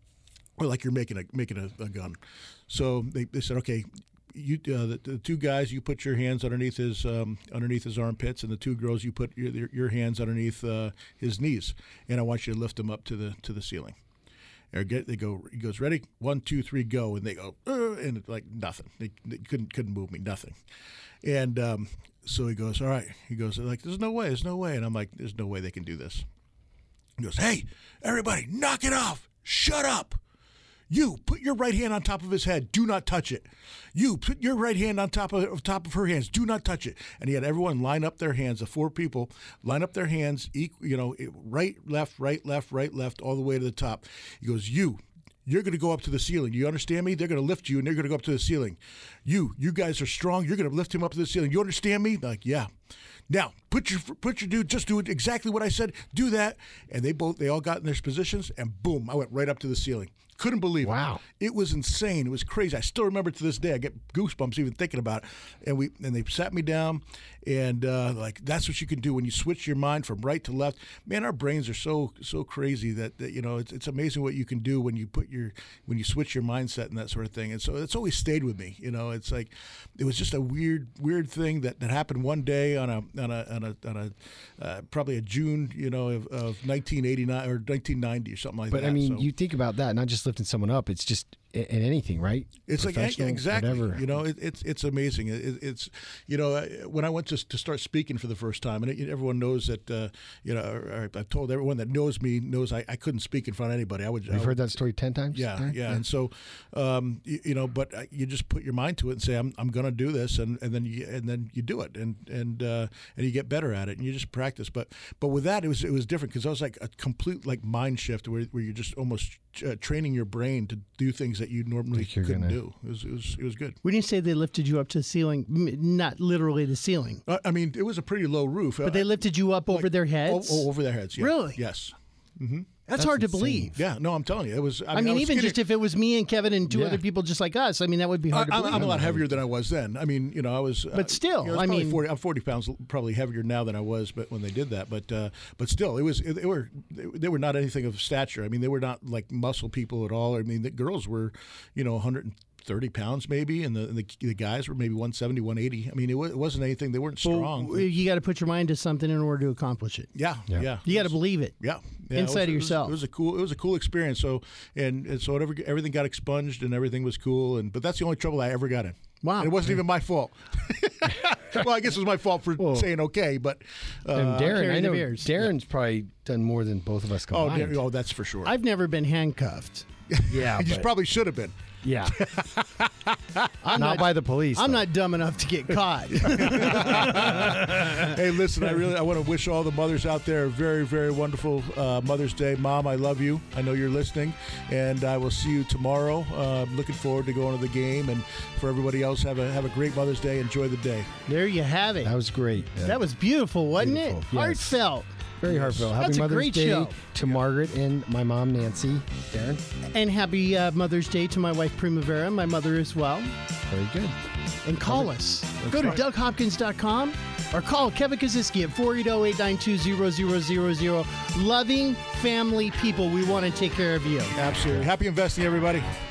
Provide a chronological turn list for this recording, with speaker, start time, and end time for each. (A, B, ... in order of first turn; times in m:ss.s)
0:00.6-0:14.0 A
0:14.7-0:20.6 A
0:21.2-0:26.3 A
0:27.2-0:30.2 A
0:30.9-0:52.7 A
0:53.3-1:29.3 A
1:00.8-1:01.2 B
1:28.7-1:34.2 B
1:32.6-1:44.7 A
1:44.3-1:46.0 B
1:45.3-2:03.8 A
2:01.9-2:02.6 B
2:03.8-2:07.2 C
2:07.3-2:09.1 A
2:08.8-2:11.6 C
2:09.7-2:12.7 A
2:12.9-2:13.7 C
2:13.0-2:13.7 B
2:13.7-2:15.6 A
2:14.9-2:19.1 C
2:16.7-2:17.0 B
2:18.3-2:37.9 A
2:18.7-2:19.4 B
2:20.9-2:22.0 C
2:37.2-2:40.1 C
2:40.1-2:54.5 A
2:40.8-2:41.6 C
2:42.1-2:43.0 C
2:49.2-2:49.5 C
2:52.6-2:52.9 B
2:54.1-2:57.8 B
2:54.4-2:55.3 C
2:57.3-2:58.5 A
2:58.4-2:59.9 C
3:00.1-3:01.5 A
3:00.3-3:00.9 B
3:01.8-3:02.2 B
3:02.1-3:03.5 A
3:03.6-3:08.0 C
3:03.7-3:04.9 B
3:06.3-3:21.1 A
3:21.3-3:22.1 C
3:22.0-3:23.0 B
3:22.8-3:25.1 C
3:23.8-3:24.8 B
3:25.4-3:29.6 B
3:25.4-3:25.9 A
3:26.0-3:27.0 C
3:29.9-3:33.3 C
3:33.7-3:34.2 B
3:34.6-3:44.4 C
3:35.6-3:36.0 A
3:44.3-3:45.9 A